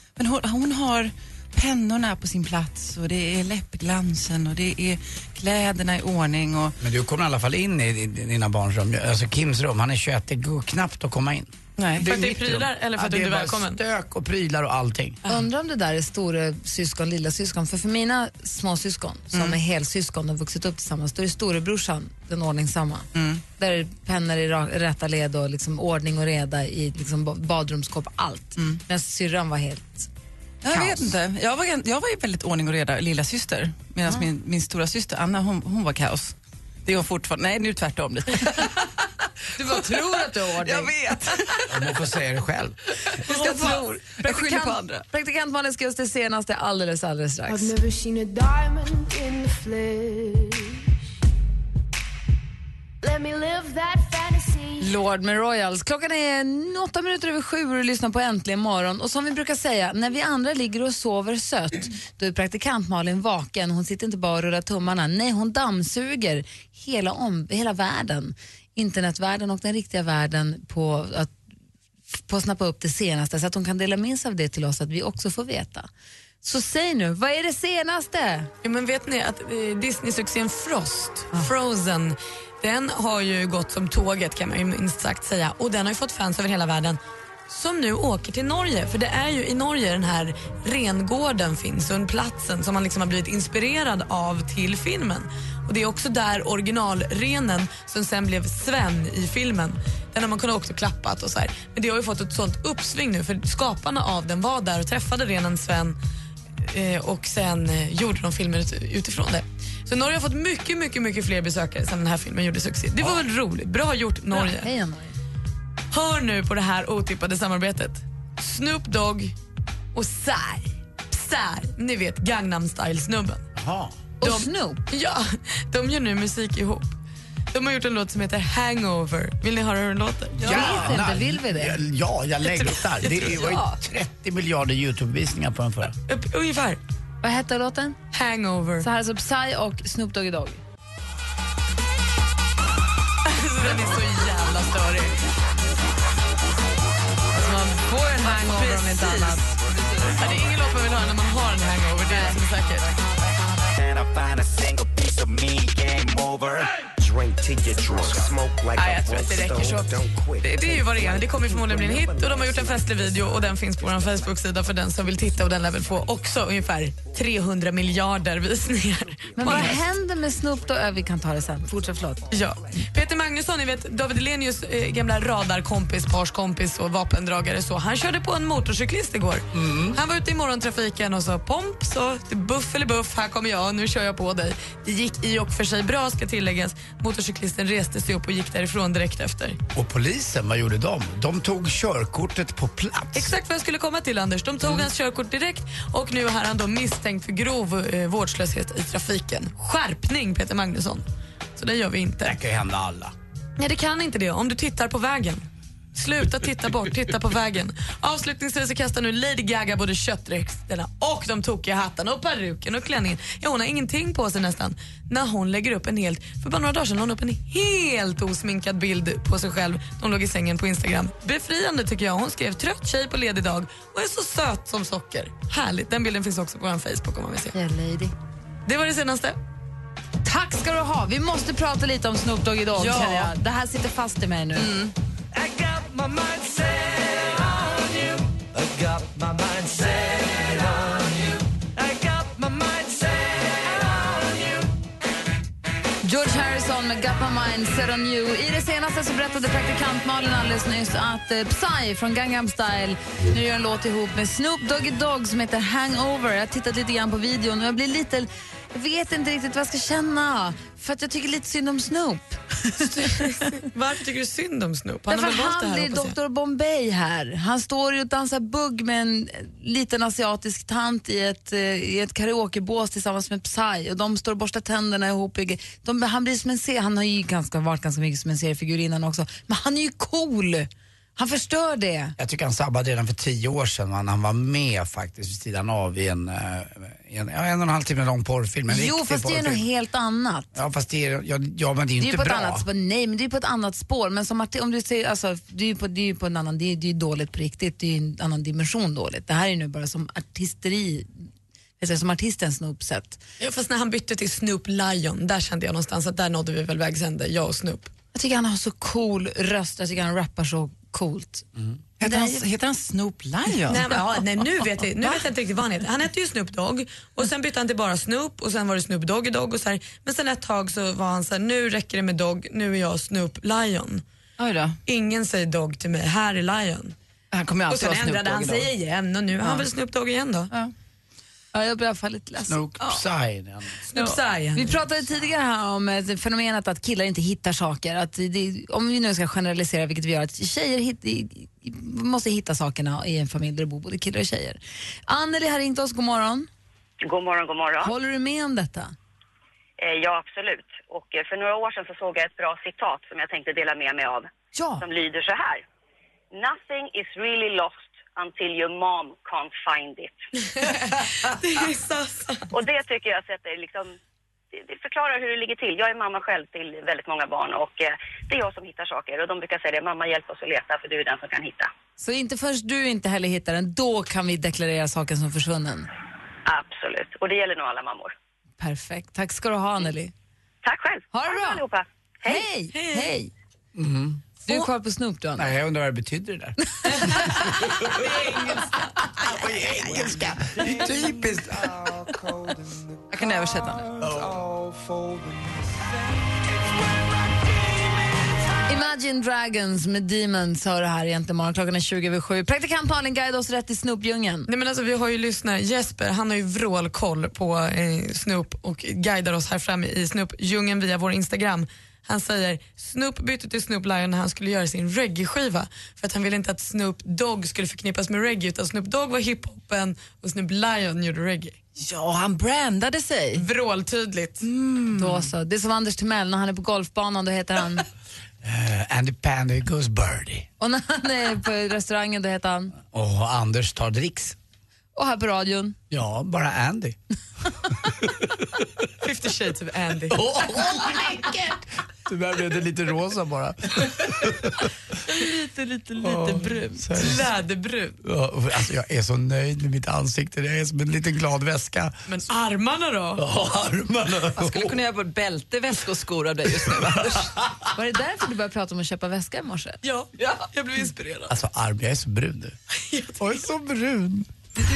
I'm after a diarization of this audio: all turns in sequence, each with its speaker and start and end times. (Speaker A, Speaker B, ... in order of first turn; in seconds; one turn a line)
Speaker A: 0.2-6.8
Speaker B: 6.8-15.2
Speaker A: 11.8-12.1
Speaker C: 12.0-13.8
Speaker D: 15.3-30.1
Speaker A: 19.3-19.6
Speaker A: 23.1-23.4
Speaker A: 28.6-28.8
Speaker A: 30.6-39.1
Speaker D: 30.7-31.1
Speaker D: 39.6-41.0
Speaker A: 39.6-42.0
Speaker B: 41.7-42.8
Speaker A: 43.2-45.1
Speaker D: 43.2-47.8
Speaker C: 43.5-43.8
Speaker E: 47.5-50.8
Speaker E: 53.0-54.9
Speaker D: 54.8-71.4
Speaker D: 72.1-75.9
Speaker D: 76.4-78.5
Speaker C: 78.6-106.0
Speaker C: 106.6-114.7
Speaker D: 114.3-115.1
Speaker C: 115.9-119.3
Speaker C: 120.0-123.4
Speaker B: 123.6-124.0
Speaker D: 124.2-124.8
Speaker C: 124.2-127.0
Speaker C: 127.5-130.7
Speaker B: 130.4-135.9
Speaker D: 130.4-131.8
Speaker A: 130.5-130.8
Speaker C: 132.5-133.6
Speaker C: 136.1-136.8
Speaker D: 137.2-138.0
Speaker C: 138.1-138.9
Speaker D: 138.8-140.6
Speaker C: 143.3-145.2
Speaker D: 147.3-149.5
Speaker A: 148.3-150.4
Speaker C: 150.1-152.9
Speaker F: 153.8-162.9
Speaker C: 158.8-169.8
Speaker D: 169.4-172.2
Speaker C: 172.3-189.6
Speaker B: 179.5-180.0
Speaker B: 189.8-193.3
Speaker C: 193.2-202.4
Speaker B: 202.2-203.1
Speaker C: 203.6-227.6
Speaker D: 227.5-228.1
Speaker C: 228.7-229.4
Speaker D: 230.2-234.7
Speaker A: 232.8-233.3
Speaker A: 234.6-234.9
Speaker F: 235.7-237.2
Speaker F: 238.8-241.1
Speaker F: 242.2-243.0
Speaker D: 246.0-263.3
Speaker C: 262.9-266.2
Speaker D: 265.1-282.2
Speaker B: 282.2-289.6
Speaker D: 288.7-290.5
Speaker B: 290.6-292.6
Speaker D: 292.0-301.1
Speaker D: 301.8-303.2
Speaker C: 303.4-307.9
Speaker D: 308.1-311.5
Speaker A: 312.0-314.1
Speaker D: 312.0-312.4
Speaker C: 313.7-324.0
Speaker A: 315.0-315.3
Speaker A: 324.4-324.8
Speaker C: 324.9-326.9
Speaker A: 327.3-328.7
Speaker C: 327.7-330.5
Speaker D: 331.5-332.6
Speaker B: 332.5-333.8
Speaker C: 333.9-334.8
Speaker D: 334.6-346.5
Speaker G: 347.0-347.9
Speaker D: 347.8-348.9
Speaker G: 349.8-355.6
Speaker D: 354.5-354.8
Speaker G: 356.3-360.2
Speaker C: 360.6-362.5
Speaker G: 362.5-364.0
Speaker G: 364.5-371.7
Speaker D: 372.0-375.9
Speaker G: 376.5-378.1
Speaker D: 378.6-380.1
Speaker G: 380.6-382.4
Speaker D: 381.1-381.6
Speaker D: 382.2-383.3
Speaker C: 382.7-383.1
Speaker B: 383.8-384.2
Speaker D: 384.5-385.5
Speaker B: 385.4-386.6
Speaker D: 386.8-387.4
Speaker B: 387.6-388.1
Speaker C: 387.9-388.7
Speaker B: 389.1-392.1
Speaker A: 393.1-393.9
Speaker B: 394.0-394.4
Speaker F: 394.4-395.6
Speaker D: 398.7-404.5
Speaker C: 404.5-421.6
Speaker A: 421.8-423.4
Speaker C: 423.3-424.5
Speaker A: 424.4-425.3
Speaker D: 424.9-427.9
Speaker B: 428.4-430.5
Speaker D: 430.6-432.8
Speaker B: 432.9-434.4
Speaker D: 434.9-435.8
Speaker B: 435.9-437.0
Speaker C: 439.0-440.2
Speaker B: 440.1-444.7
Speaker B: 446.0-447.3
Speaker C: 446.0-448.0
Speaker B: 448.0-451.9
Speaker C: 452.1-453.2
Speaker B: 453.2-454.8
Speaker A: 454.3-457.3
Speaker D: 457.8-459.8
Speaker C: 459.8-461.3
Speaker B: 461.3-462.6
Speaker C: 462.9-463.4
Speaker B: 463.2-464.3